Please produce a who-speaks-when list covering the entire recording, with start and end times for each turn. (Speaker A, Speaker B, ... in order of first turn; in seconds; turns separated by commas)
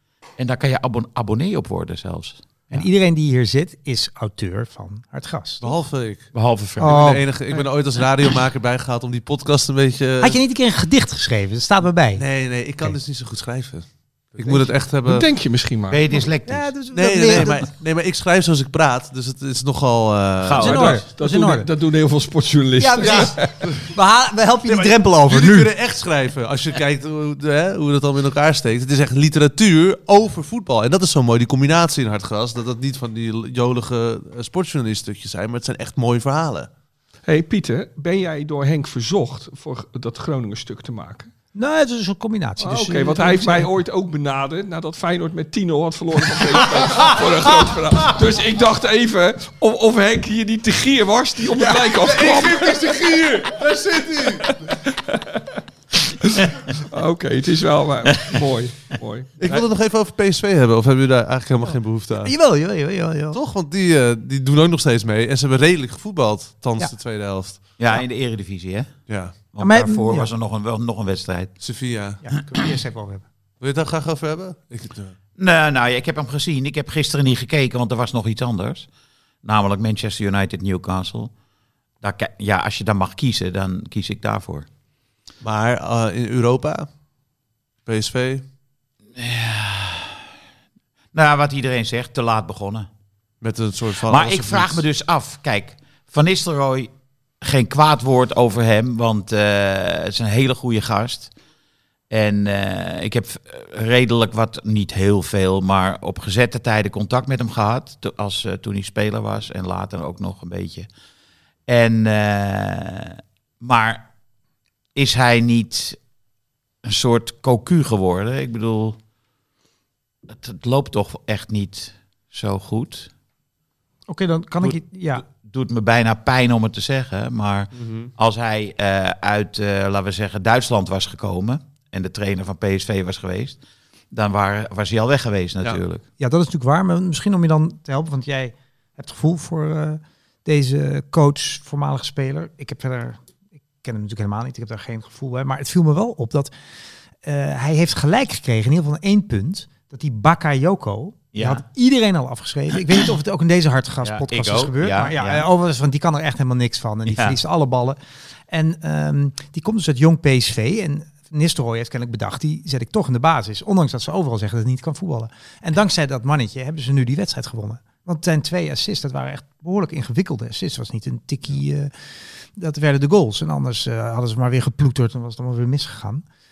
Speaker A: 0.4-2.9, Speaker B: 2.7-5.6, Speaker C: 5.6-10.4, Speaker A: 6.3-7.2, Speaker B: 6.8-7.3, Speaker B: 10.2-12.3, Speaker C: 12.2-15.2, Speaker B: 14.4-14.7, Speaker D: 15.1-16.0, Speaker A: 15.9-16.7, Speaker B: 16.1-17.6, Speaker C: 16.9-20.7, Speaker A: 20.4-21.0, Speaker B: 20.6-21.7, Speaker D: 20.7-23.7, Speaker B: 22.8-25.7, Speaker C: 24.7-36.7, Speaker D: 37.2-41.3, Speaker B: 41.5-43.7, Speaker D: 42.6-52.8, Speaker C: 52.0-54.7, Speaker D: 54.4-55.4, Speaker D: 56.2-59.6, Speaker C: 59.4-62.3, Speaker B: 62.2-63.4, Speaker C: 63.3-67.6, Speaker A: 67.8-71.6, Speaker C: 69.1-69.3, Speaker B: 69.6-70.3, Speaker C: 71.6-72.2, Speaker B: 72.2-73.2, Speaker C: 73.6-75.1, Speaker A: 75.4-78.9, Speaker A: 79.4-81.3, Speaker A: 82.0-84.7, Speaker C: 85.4-86.9, Speaker C: 87.9-88.4, Speaker A: 89.2-90.2, Speaker A: 91.1-92.9, Speaker C: 93.4-94.8, Speaker A: 94.1-96.9, Speaker A: 97.4-101.3, Speaker A: 102.1-110.9, Speaker A: 111.7-114.1, Speaker A: 114.9-116.0, Speaker A: 116.8-119.0, Speaker A: 120.3-123.1, Speaker B: 124.1-125.2, Speaker A: 125.2-133.6, Speaker C: 127.7-128.1, Speaker A: 134.1-136.0, Speaker B: 136.2-143.2, Speaker B: 143.8-146.5, Speaker B: 147.2-158.0, Speaker A: 151.3-151.6, Speaker A: 154.0-155.4, Speaker A: 157.1-157.4, Speaker B: 158.5-171.9, Speaker B: 172.6-176.2